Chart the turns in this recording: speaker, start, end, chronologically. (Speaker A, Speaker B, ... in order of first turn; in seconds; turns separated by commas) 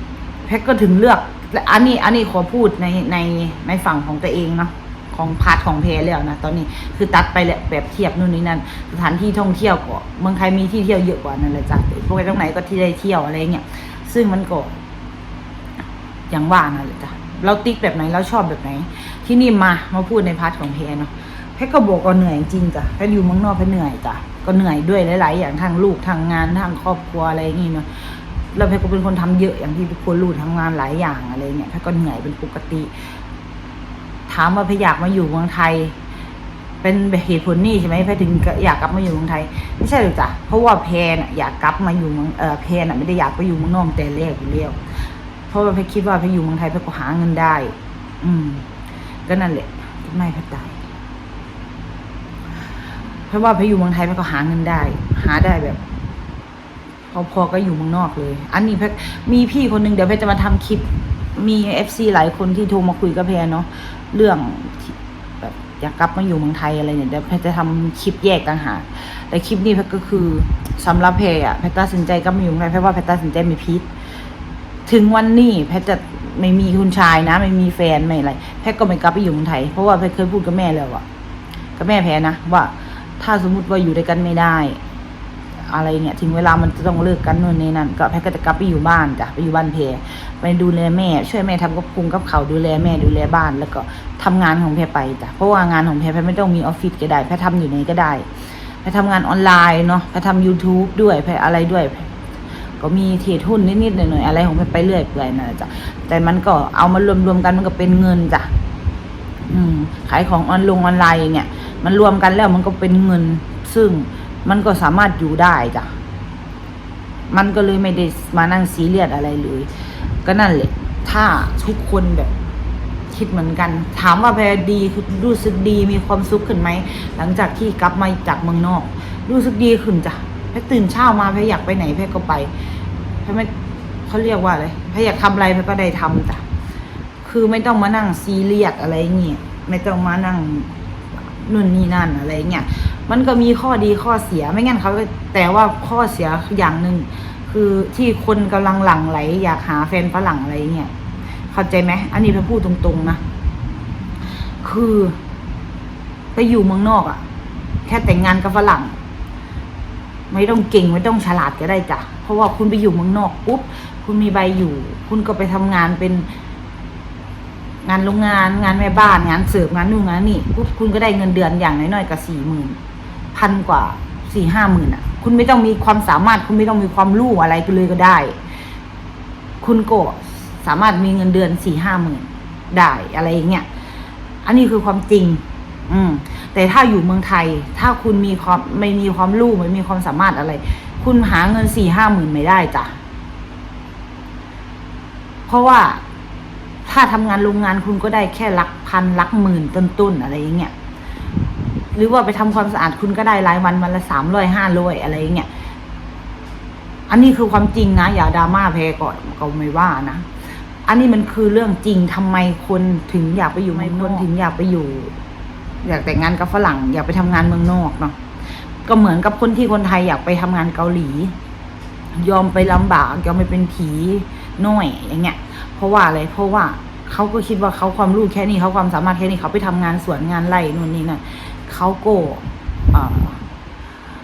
Speaker A: 0.4-14.7, Speaker A: 16.3-32.9, Speaker A: 34.3-35.9, Speaker A: 36.8-44.8, Speaker A: 45.5-48.7, Speaker A: 49.3-50.8, Speaker A: 53.3-55.8, Speaker A: 57.1-73.9, Speaker A: 74.9-81.0, Speaker A: 81.8-84.8, Speaker A: 85.6-98.3, Speaker A: 98.8-102.1, Speaker A: 102.8-108.5, Speaker A: 109.5-116.0, Speaker A: 117.3-119.7, Speaker A: 120.2-122.3, Speaker A: 123.1-132.5, Speaker A: 133.2-133.5, Speaker A: 134.1-136.4, Speaker A: 137.2-150.9, Speaker A: 151.5-153.2, Speaker A: 154.6-155.2, Speaker A: 156.3-157.2, Speaker A: 157.8-159.0, Speaker A: 160.3-166.3, Speaker A: 167.8-172.8, Speaker A: 173.3-178.3, Speaker A: 179.6-183.7, Speaker A: 184.4-193.0, Speaker A: 195.5-196.0, Speaker A: 196.8-200.7, Speaker A: 201.9-205.5, Speaker A: 207.1-210.3, Speaker A: 210.8-215.2, Speaker A: 215.8-218.2, Speaker A: 218.8-221.3, Speaker A: 222.1-233.4